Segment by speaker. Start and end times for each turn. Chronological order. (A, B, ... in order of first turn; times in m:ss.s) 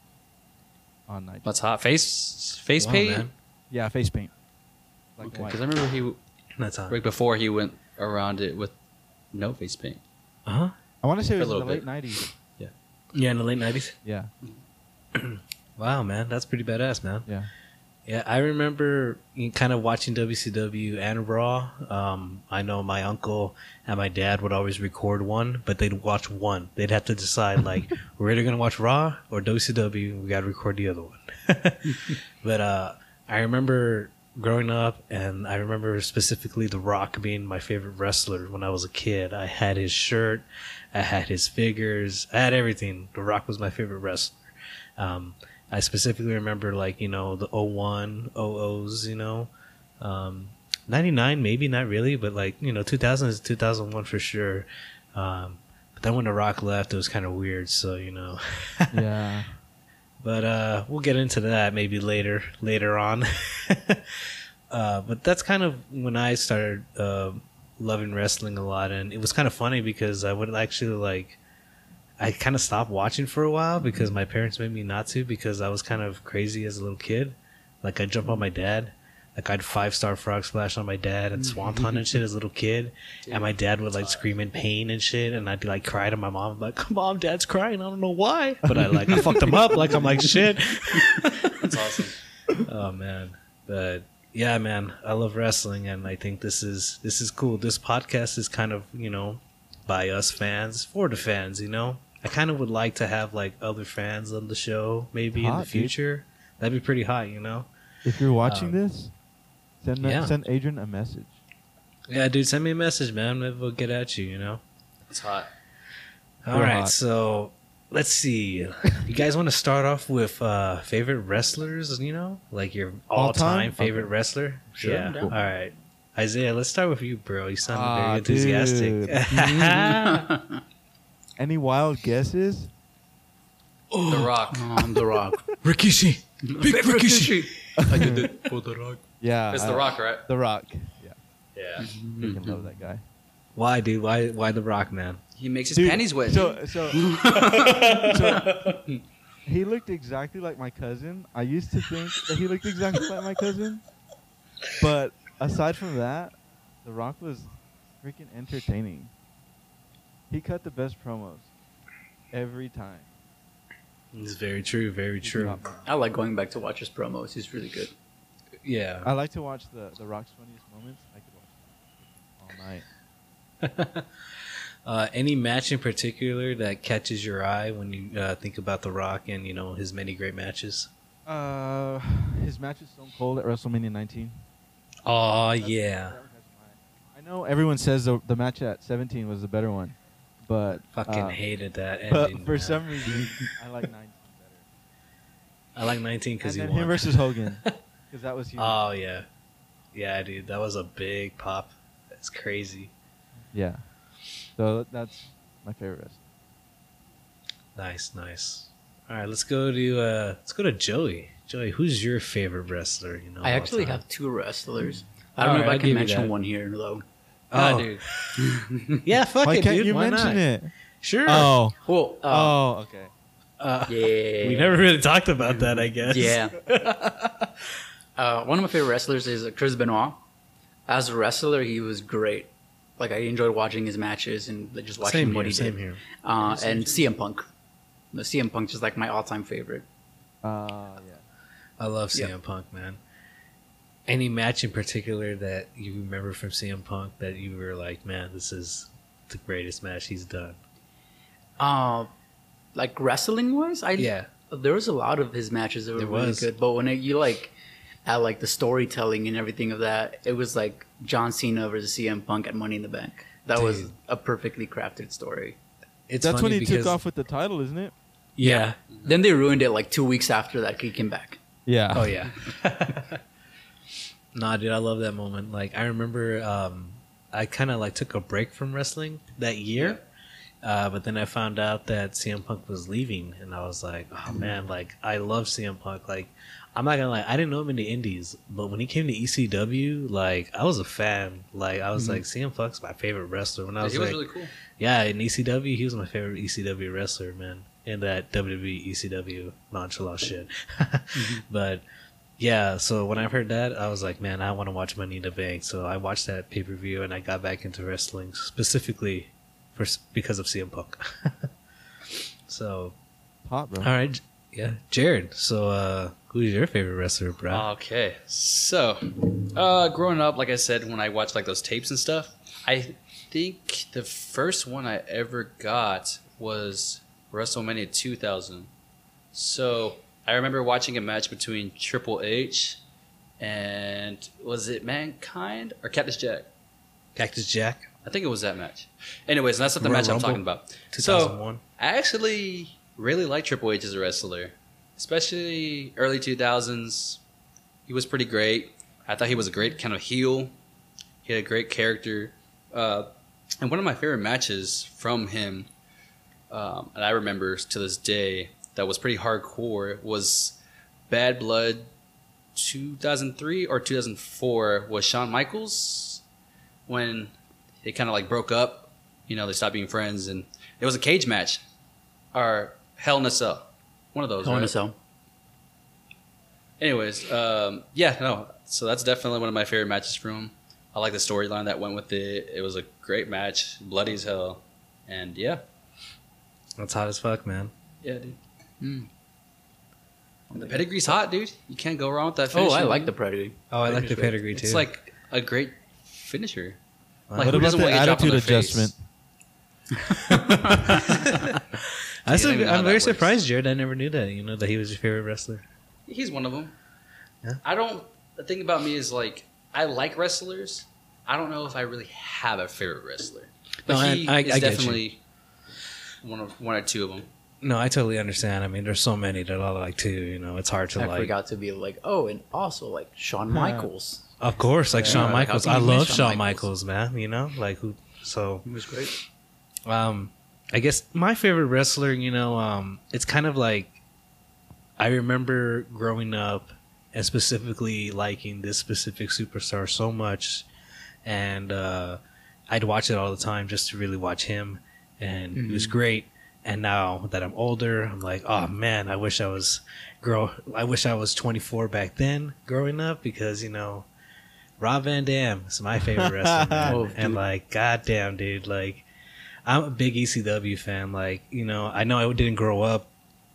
0:01.1-0:01.5 A
0:01.4-0:03.3 B
0:02.8-0:03.3 C
0:03.7-0:04.3 A
0:05.2-0:05.6 A
0:05.2-0:06.2 B
0:06.6-0:07.0 C
0:06.9-0:08.7 B
0:09.3-0:10.0 B
0:10.4-0:10.7 C
0:11.0-0:12.3 A
0:11.4-0:11.8 B
0:13.1-0:14.0 C
0:14.0-0:14.3 A
0:15.1-0:17.3 C
0:18.0-0:59.0 C
0:58.9-0:59.6 A
1:00.2-1:11.4 C
1:12.2-1:31.7 C
1:23.3-1:24.2 B
1:28.6-1:30.0 A
1:31.5-1:32.2 B
1:32.6-1:47.7 C
1:45.3-1:45.9 A
1:48.0-1:49.1 A
1:48.4-1:48.8 C
1:49.8-1:51.4 A
1:50.0-1:50.3 C
1:52.1-1:54.6 C
1:55.1-1:55.5 B
1:56.4-2:10.4 C
1:56.5-1:56.9 A
2:03.1-2:04.1 A
2:04.8-2:05.4 D
2:07.6-2:09.2 A
2:09.3-2:10.6 D
2:11.4-2:12.7 A
2:13.9-2:14.2 C
2:14.1-2:14.7 B
2:14.5-2:15.5 D
2:15.6-2:18.6 C
2:16.4-2:18.5 D
2:17.8-2:18.4 A
2:19.2-2:21.2 A
2:19.5-2:20.2 B
2:21.6-2:21.9 B
2:21.8-2:22.6 D
2:22.2-2:23.0 A
2:23.5-2:25.2 C
2:25.4-2:26.6 B
2:25.7-2:27.0 A
2:26.9-2:28.9 D
2:27.6-2:28.0 C
2:27.8-2:28.6 A
2:29.4-2:33.8 A
2:34.8-2:39.1 A
2:40.3-2:41.5 A
2:42.3-2:43.1 A
2:44.1-2:45.6 C
2:45.2-2:45.9 A
2:45.8-2:47.9 D
2:48.6-2:49.1 C
2:49.0-2:52.8 A
2:53.6-2:54.1 C
2:54.8-3:00.9 C
3:01.3-3:04.4 A
3:05.0-3:06.2 C
3:05.6-3:11.4 A
3:10.9-3:12.8 C
3:12.1-3:14.7 A
3:15.7-3:17.8 C
3:16.4-3:18.8 A
3:18.6-3:19.2 C
3:19.9-3:22.9 C
3:23.5-3:23.9 A
3:24.6-3:26.3 A
3:27.8-3:34.0 C
3:33.4-3:37.0 D
3:35.4-3:36.3 C
3:37.5-3:38.4 C
3:37.5-3:38.0 B
3:38.4-3:39.0 D
3:39.0-3:40.4 C
3:39.4-3:40.7 A
3:41.0-3:41.5 C
3:41.2-3:41.8 A
3:41.8-3:42.6 D
3:42.3-3:43.1 A
3:43.6-3:47.7 C
3:43.9-3:44.8 D
3:46.0-3:46.6 D
3:48.2-3:50.2 D
3:50.9-3:57.5 D
3:55.0-3:56.0 C
3:56.4-3:57.2 B
3:58.1-3:59.8 D
4:00.4-4:01.2 A
4:01.8-4:03.0 C
4:04.1-4:10.6 C
4:11.6-4:12.1 D
4:12.7-4:17.5 D
4:14.0-4:14.3 C
4:15.9-4:16.5 C
4:18.0-4:25.6 D
4:23.5-4:23.9 C
4:26.1-4:27.0 C
4:26.2-4:27.9 A
4:28.4-4:28.8 C
4:28.4-4:31.4 D
4:28.9-4:29.2 B
4:31.6-4:32.1 A
4:31.9-4:33.2 C
4:34.3-4:40.0 C
4:40.6-4:54.2 C
4:52.0-4:52.2 D
4:53.8-4:54.5 B
4:54.7-5:01.8 C
5:02.4-5:11.5 C
5:12.1-5:12.9 C
5:13.4-5:13.9 A
5:13.8-5:17.7 C
5:17.5-5:28.7 B
5:29.3-5:32.8 B
5:33.4-5:36.5 B
5:37.2-5:37.9 C
5:38.0-5:47.2 B
5:39.8-5:41.6 C
5:47.9-5:50.5 B
5:51.2-5:55.7 B
5:56.5-6:00.6 B
6:01.1-6:01.9 B
6:02.6-6:06.2 B
6:06.9-6:07.3 B
6:07.8-6:11.6 B
6:12.3-6:14.7 B
6:14.4-6:15.0 D
6:16.8-6:25.6 B
6:26.8-6:27.7 C
6:28.0-6:28.4 B
6:28.8-6:29.1 D
6:30.5-6:31.2 D
6:30.5-6:33.1 B
6:32.5-6:34.4 D
6:33.7-6:34.8 C
6:34.5-6:36.8 B
6:37.3-6:37.7 C
6:37.3-6:38.9 B
6:37.4-6:39.0 A
6:40.2-6:45.6 C
6:40.3-6:41.0 D
6:40.7-6:41.3 B
6:42.3-6:43.3 B
6:46.1-6:46.7 B
6:47.6-6:55.2 B
6:53.8-6:55.0 C
6:56.2-6:57.3 B
6:57.6-7:01.3 C
7:01.0-7:04.3 D
7:03.5-7:03.9 A
7:04.4-7:08.6 C
7:04.9-7:06.7 D
7:05.0-7:05.4 B
7:08.6-7:09.1 D
7:09.8-7:14.0 C
7:15.0-7:20.7 C
7:21.2-7:34.0 C
7:25.5-7:26.0 D
7:34.8-7:39.0 C
7:36.1-7:37.0 A
7:36.8-7:37.4 D
7:39.6-7:43.1 C